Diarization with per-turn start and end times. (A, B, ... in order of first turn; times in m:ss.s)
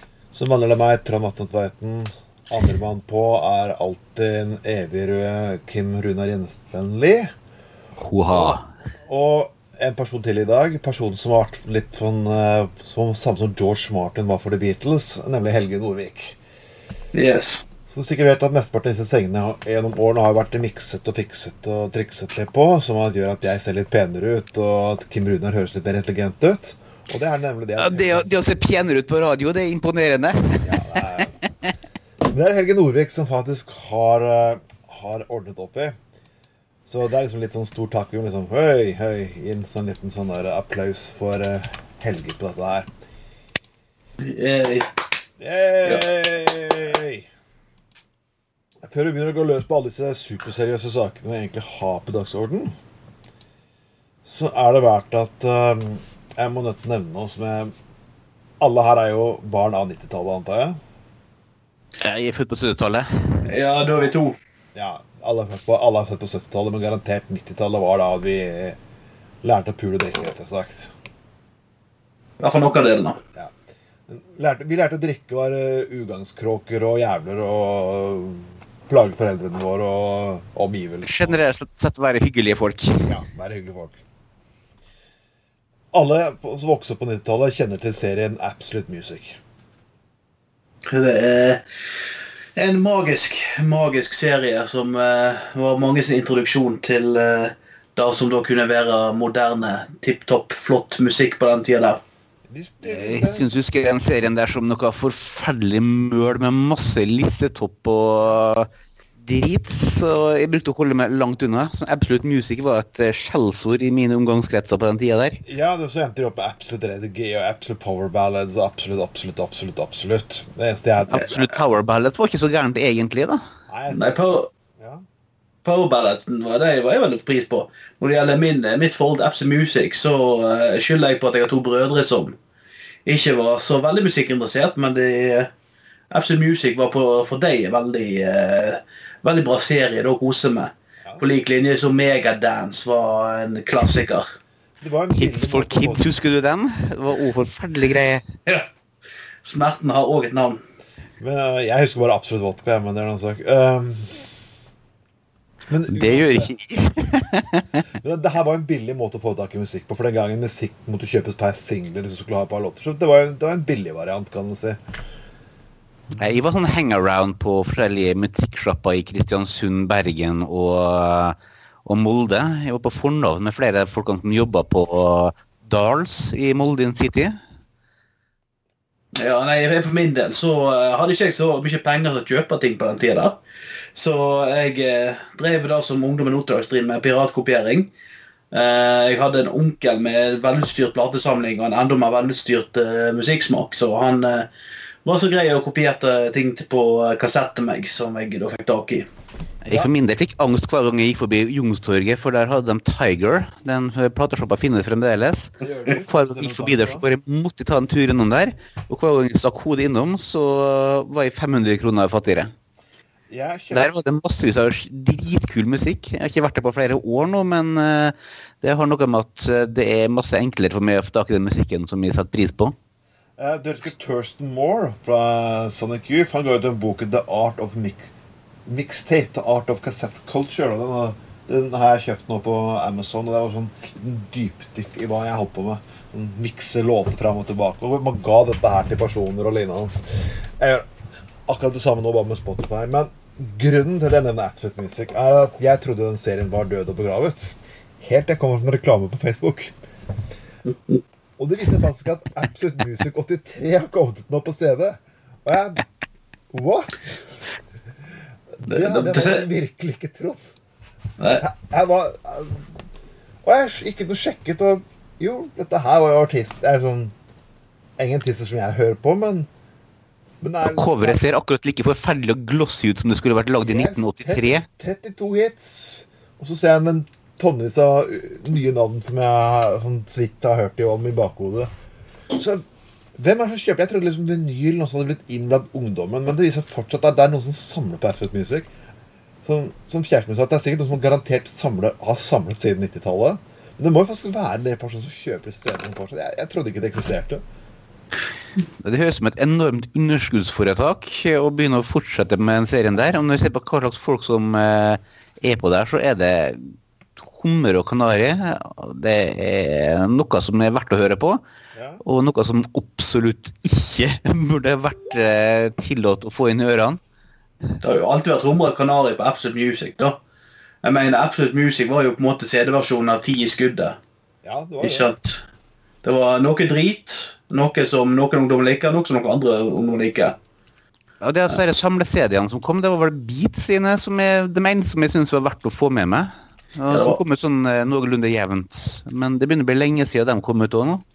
0:00.3-0:07.3 A
0:08.0-0:08.6 B
0:09.1-0:16.4 A
0:17.1-0:17.6 C
0:17.9-0:28.3 A
0:27.8-0:31.0 B
0:30.6-0:31.4 A
0:32.2-0:36.0 A
0:36.9-0:42.9 A
0:44.2-0:44.9 C
0:45.4-0:47.3 A
0:48.8-0:52.7 A
0:54.2-0:57.7 A
0:58.6-1:00.8 A
1:02.0-1:03.4 B
1:03.4-1:04.4 C
1:04.7-1:08.8 A
1:09.4-1:10.9 A
1:12.4-1:13.2 C
1:14.1-1:21.4 A
1:21.0-1:23.2 B
1:23.0-1:24.0 A
1:25.9-1:29.4 A
1:30.8-1:31.6 C
1:32.6-1:42.0 C
1:42.5-1:43.5 A
1:42.8-1:48.7 B
1:48.2-1:48.4 A
1:49.2-1:55.4 B
1:55.4-2:01.6 A
2:01.1-2:03.4 B
2:03.7-2:04.3 A
2:03.9-2:04.5 C
2:04.8-2:05.0 A
2:05.6-2:12.4 C
2:13.0-2:15.5 C
2:16.1-2:24.2 C
2:24.8-2:26.1 A
2:25.1-2:28.3 B
2:29.4-2:30.6 C
2:31.2-2:34.3 A
2:35.7-2:36.6 A
2:35.9-2:37.8 B
2:38.0-2:44.8 A
2:46.1-2:57.3 B
2:59.2-3:03.4 C
3:03.9-3:07.9 C
3:08.5-3:14.5 C
3:15.0-3:19.1 C
3:19.6-3:32.5 B
3:25.6-3:27.0 A
3:33.3-3:33.9 A
3:33.7-3:42.7 B
3:43.4-3:48.1 A
3:48.6-4:00.9 A
4:01.5-4:09.7 A
4:11.4-4:15.8 A
4:16.5-4:17.5 A
4:18.5-4:20.5 A
4:18.7-4:19.4 C
4:21.2-4:21.4 C
4:21.4-4:22.7 A
4:23.4-4:27.1 A
4:28.0-4:29.5 A
4:30.4-4:31.2 A
4:30.7-4:34.6 B
4:33.6-4:41.7 A
4:42.3-4:42.6 A
4:43.2-4:48.7 A
4:49.4-4:57.4 A
4:58.8-5:11.4 B
5:11.7-5:12.0 A
5:12.0-5:17.0 B
5:17.8-5:20.2 C
5:20.8-5:24.0 C
5:24.4-5:25.1 A
5:24.8-5:25.4 C
5:26.0-5:30.4 C
5:31.2-5:41.0 B
5:36.9-5:37.2 C